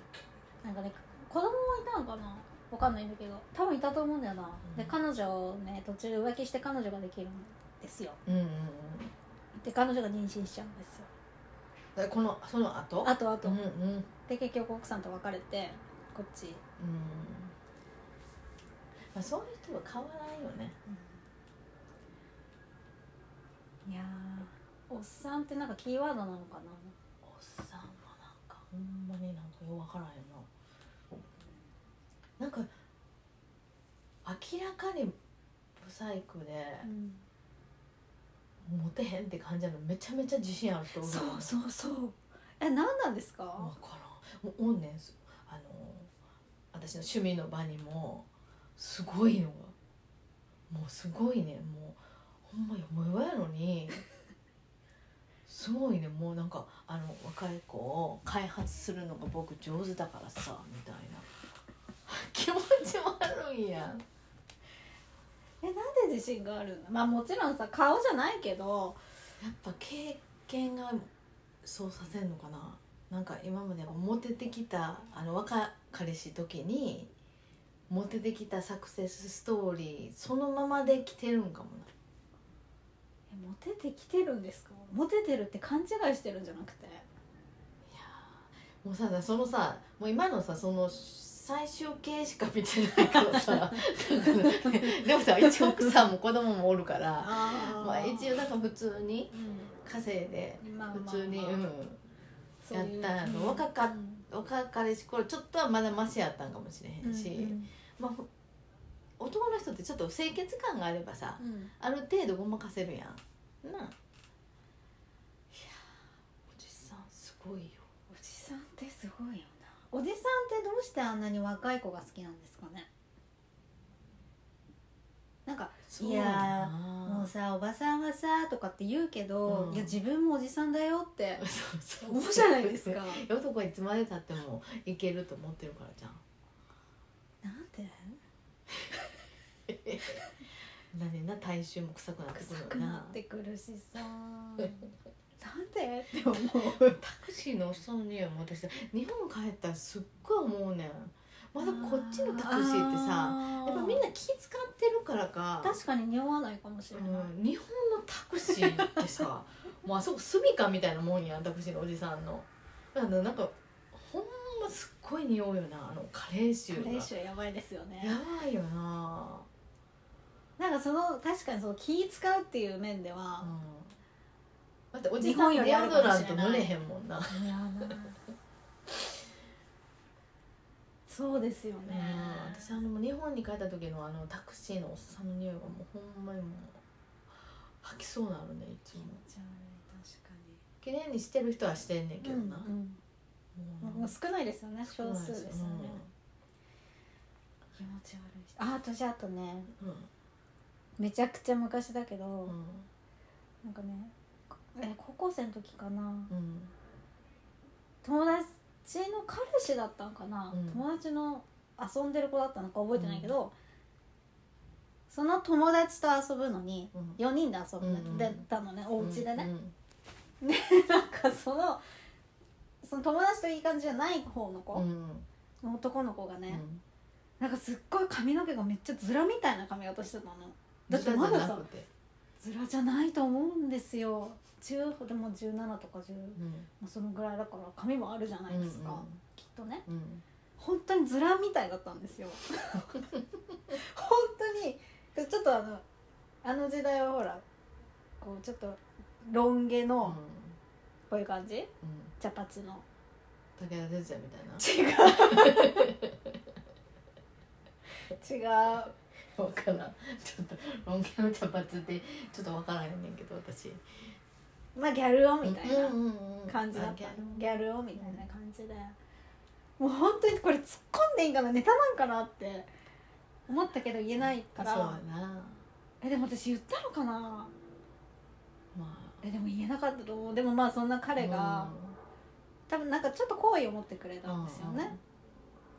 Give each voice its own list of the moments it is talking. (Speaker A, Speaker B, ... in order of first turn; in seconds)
Speaker A: 0.6-8.2, 9.6-11.1, 13.0-13.6, 14.2-16.6, 20.9-21.2, 23.9-26.9, 36.8-37.2, 41.0-43.7, 65.6-69.0, 83.3-87.1, 94.2-94.7, 95.5-95.9, 97.2-98.4, 99.3-99.7, 100.6-101.6, 102.6-104.2, 107.0-107.7, 111.4-111.7, 118.1-122.9, 125.5-131.4, 132.0-133.3, 137.4-138.2, 142.3-147.0, 151.6-154.1, 155.6-157.3, 158.6-159.1, 166.7-168.2, 170.6-173.5, 175.2-176.7, 177.3-178.2, 181.1-182.8, 188.9-190.6, 192.2-193.0, 193.8-196.0, 197.8-199.7, 201.0-202.5, 203.6-206.3, 208.0-213.5, 215.1-219.5, 220.4-221.8, 222.8-224.8, 225.6-226.6, 227.4-231.7, 232.4-239.8, 240.6-243.1, 243.7-245.8, 246.4-247.4, 248.2-250.2, 251.1-252.8, 254.6-255.9, 258.1-258.9, 264.8-266.0, 266.5-269.0, 269.8-272.7, 273.5-275.0, 276.0-277.5, 279.2-281.7, 282.7-285.0
Speaker B: 4.7-5.0, 8.3-9.1, 12.0-14.1, 16.8-17.5, 19.1-20.8, 27.2-30.5, 32.4-32.7, 34.2-35.1, 35.8-36.9, 38.7-41.6, 43.6-46.1, 46.7-49.8, 50.7-54.0, 55.5-61.3, 62.1-64.0, 69.4-71.1, 71.6-77.1, 77.9-81.9, 87.9-102.0, 102.7-108.3, 109.2-114.0, 115.5-115.9, 116.5-117.9, 125.9-127.3, 129.5-130.0, 131.4-136.2, 139.7-140.2, 140.9-143.2, 146.7-155.8, 156.9-167.1, 168.0-169.5, 173.4-174.0, 174.9-177.9, 181.9-186.8, 187.8-189.2, 190.8-192.7, 193.6-194.1, 194.9-196.1, 199.8-200.1, 202.5-202.9, 206.3-206.7, 210.5-210.8, 212.9-213.4, 216.9-217.2, 217.8-219.8, 224.7-225.3, 226.5-226.8, 230.9-231.9, 236.4-236.7, 238.5-239.2, 239.9-240.2, 250.0-250.6, 251.8-252.1, 253.6-256.1, 259.4-263.8, 265.4-268.2, 274.2-275.6, 278.7-279.2, 281.2-282.0, 284.2-285.0